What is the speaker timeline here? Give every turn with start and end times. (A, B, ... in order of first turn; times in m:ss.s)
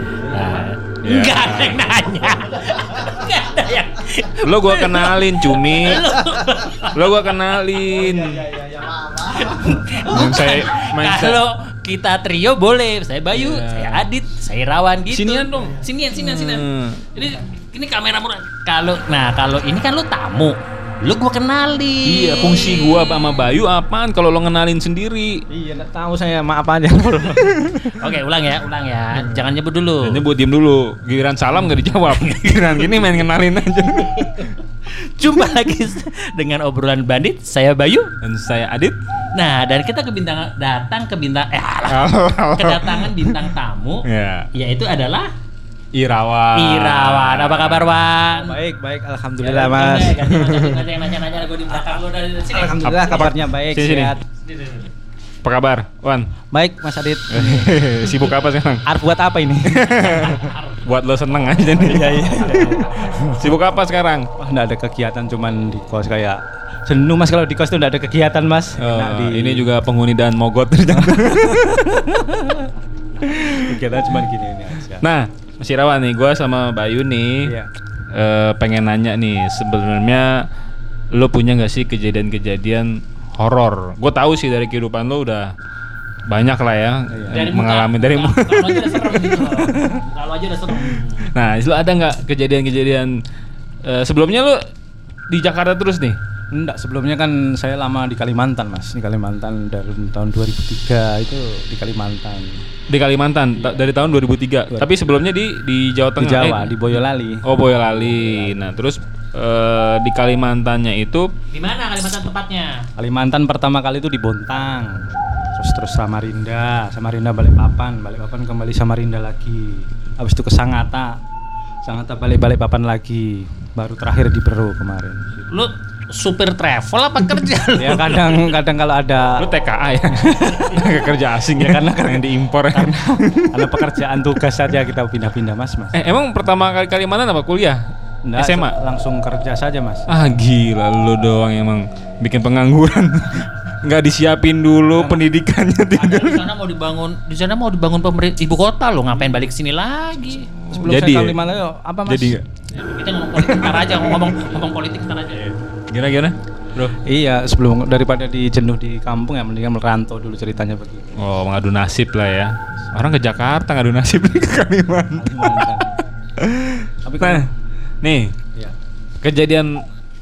0:00.3-0:07.5 A
0:00.3-0:00.6 B
0:01.0-0:01.9 C
0:04.4-0:06.1 C
0:06.8-0:08.7 C
0:08.7-0:23.1 A
0:10.0-0:11.4 C
0:13.3-0:14.1 C
0:15.1-0:17.1 C
0:22.1-0:25.4 C
0:25.5-0:28.2 B
0:27.9-0:30.2 A
0:30.0-0:34.6 C
0:32.0-0:33.1 A
0:34.1-0:38.1 A
0:38.2-0:39.0 C
0:39.3-0:45.3 A
0:41.9-0:43.5 C
0:44.1-0:44.5 C
0:45.9-0:48.1 C
0:46.6-0:48.6 A
0:48.3-0:50.4 B
0:49.4-0:53.3 A
0:50.2-0:51.0 C
0:52.4-0:54.2 B
0:52.8-0:54.2 C
0:54.4-0:54.9 A
0:55.4-0:56.3 C
0:56.5-0:57.9 B
0:57.3-0:58.9 C
0:58.8-1:00.5 B
0:59.6-1:04.3 C
1:00.0-1:00.8 A
1:01.7-1:03.6 B
1:04.4-1:09.7 B
1:08.8-1:12.0 C
1:10.9-1:12.7 B
1:13.2-1:13.8 C
1:13.6-1:15.0 B
1:15.0-1:17.5 C
1:17.4-1:17.7 B
1:18.1-1:20.3 C
1:21.1-1:25.5 C
1:26.3-1:29.6 C
1:27.1-1:27.5 B
1:27.3-1:31.3 A
1:29.6-1:30.0 B
1:31.3-1:33.1 C
1:33.8-1:34.6 C
1:35.3-1:36.2 C
1:36.5-1:42.6 B
1:42.9-1:46.9 C
1:44.7-1:45.2 B
1:46.2-1:48.6 B
1:47.4-1:51.3 C
1:51.5-1:52.9 A
1:53.0-2:01.2 B
2:01.8-2:05.5 B
2:05.5-2:08.5 A
2:07.8-2:09.5 B
2:09.4-2:13.9 C
2:10.1-2:16.0 B
2:15.9-2:17.8 C
2:18.2-2:20.1 B
2:18.4-2:18.8 C
2:20.1-2:26.5 C
2:24.9-2:25.2 B
2:26.0-2:30.5 A
2:30.7-2:32.4 B
2:30.7-2:31.4 C
2:32.1-2:32.4 C
2:32.7-2:35.5 A
2:35.3-2:37.0 C
2:37.0-2:41.2 B
2:41.2-2:45.8 C
2:45.2-2:45.9 B
2:46.4-2:47.5 C
2:47.0-2:47.5 B
2:48.0-2:48.3 C
2:49.2-2:49.7 C